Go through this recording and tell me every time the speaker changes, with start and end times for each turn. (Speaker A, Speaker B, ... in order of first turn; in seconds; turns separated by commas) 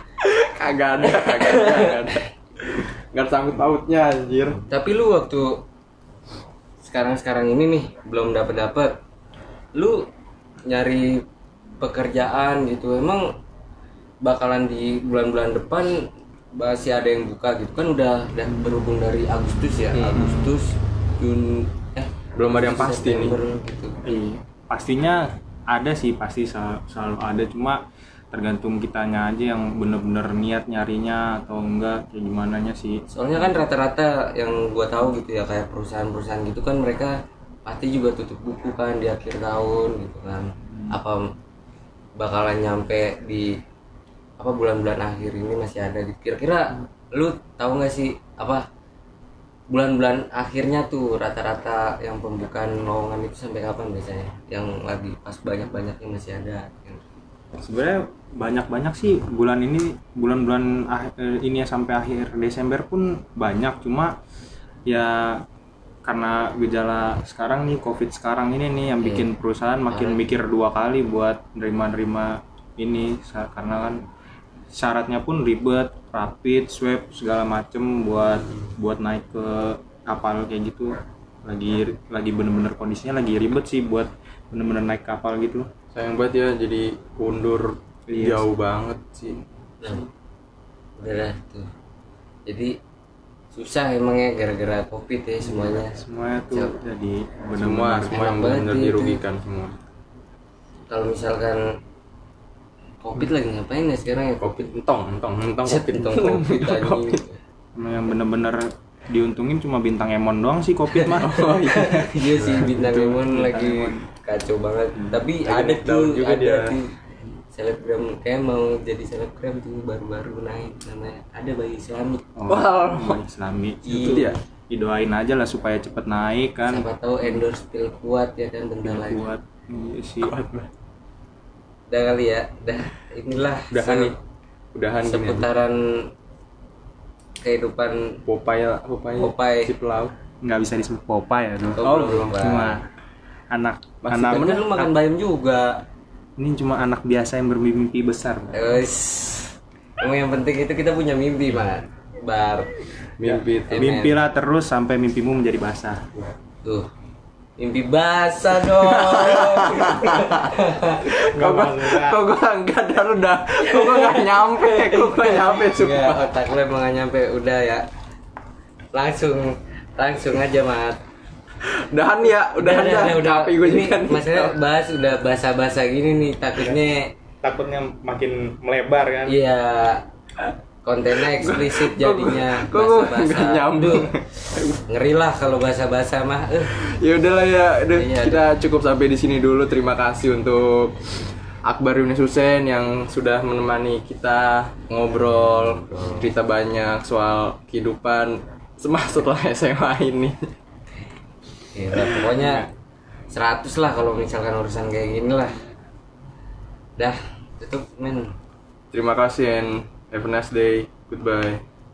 Speaker A: 0.2-4.6, Speaker B: 1.0-2.2, Speaker B: 4.7-5.6, Speaker B: 6.8-9.0, Speaker B: 9.7-10.1, Speaker B: 10.6-11.2, Speaker B: 11.8-13.3, Speaker B: 14.2-24.0, Speaker A: 19.9-20.3, Speaker C: 20.1-20.5, Speaker A: 22.4-23.4, Speaker C: 24.0-33.6, Speaker B: 33.1-41.2, Speaker B: 42.2-43.5, Speaker B: 44.4-48.6, Speaker B: 49.7-57.0, Speaker C: 57.6-64.2, Speaker C: 64.8-65.4, Speaker C: 66.0-74.0, Speaker B: 69.0-69.3, Speaker B: 69.9-70.2, Speaker C: 74.7-80.9, Speaker C: 81.4-85.7, Speaker A: 85.9-89.4, Speaker C: 88.1-88.5, Speaker B: 89.8-90.1, Speaker B: 91.0-91.7, Speaker B: 92.5-92.8, Speaker B: 93.5-96.0, Speaker C: 95.5-98.2, Speaker A: 97.5-99.8, Speaker B: 98.0-99.2, Speaker B: 100.9-101.7, Speaker B: 103.0-104.7, Speaker A: 104.4-107.2, Speaker B: 105.6-107.4, Speaker C: 107.8-111.5, Speaker A: 110.9-113.3, Speaker B: 111.4-117.0, Speaker C: 113.2-114.0, Speaker C: 115.0-115.2, Speaker A: 115.4-116.8, Speaker B: 117.5-122.3, Speaker C: 122.3-127.4, Speaker A: 122.5-123.2, Speaker B: 123.8-124.3, Speaker A: 124.0-124.4, Speaker B: 126.7-129.3, Speaker C: 128.8-130.3, Speaker A: 130.2-130.7, Speaker B: 131.9-134.1, Speaker A: 133.7-134.1, Speaker A: 134.7-135.5, Speaker B: 135.0-136.1, Speaker B: 137.4-138.2, Speaker A: 138.2-140.1, Speaker B: 139.2-139.7, Speaker C: 140.4-142.8, Speaker B: 141.8-142.8, Speaker C: 143.5-144.9, Speaker A: 144.0-144.8, Speaker B: 144.2-145.8, Speaker C: 146.4-148.8, Speaker B: 148.5-152.7, Speaker A: 153.2-154.0, Speaker C: 153.2-156.2, Speaker B: 153.7-154.2, Speaker B: 156.6-156.9, Speaker B: 157.6-161.1, Speaker A: 158.8-160.5, Speaker A: 161.0-166.2, Speaker C: 161.3-162.2, Speaker B: 163.7-167.9, Speaker B: 168.9-171.0, Speaker A: 171.6-174.6, Speaker B: 172.5-177.1, Speaker C: 177.4-179.4, Speaker B: 179.3-180.1, Speaker B: 180.8-184.1, Speaker A: 181.1-184.8, Speaker B: 184.8-186.8, Speaker A: 186.7-191.1, Speaker B: 187.9-188.5, Speaker A: 191.6-200.4, Speaker B: 195.2-196.3, Speaker B: 201.7-202.7, Speaker B: 203.3-205.6, Speaker B: 207.0-208.3, Speaker A: 208.9-211.6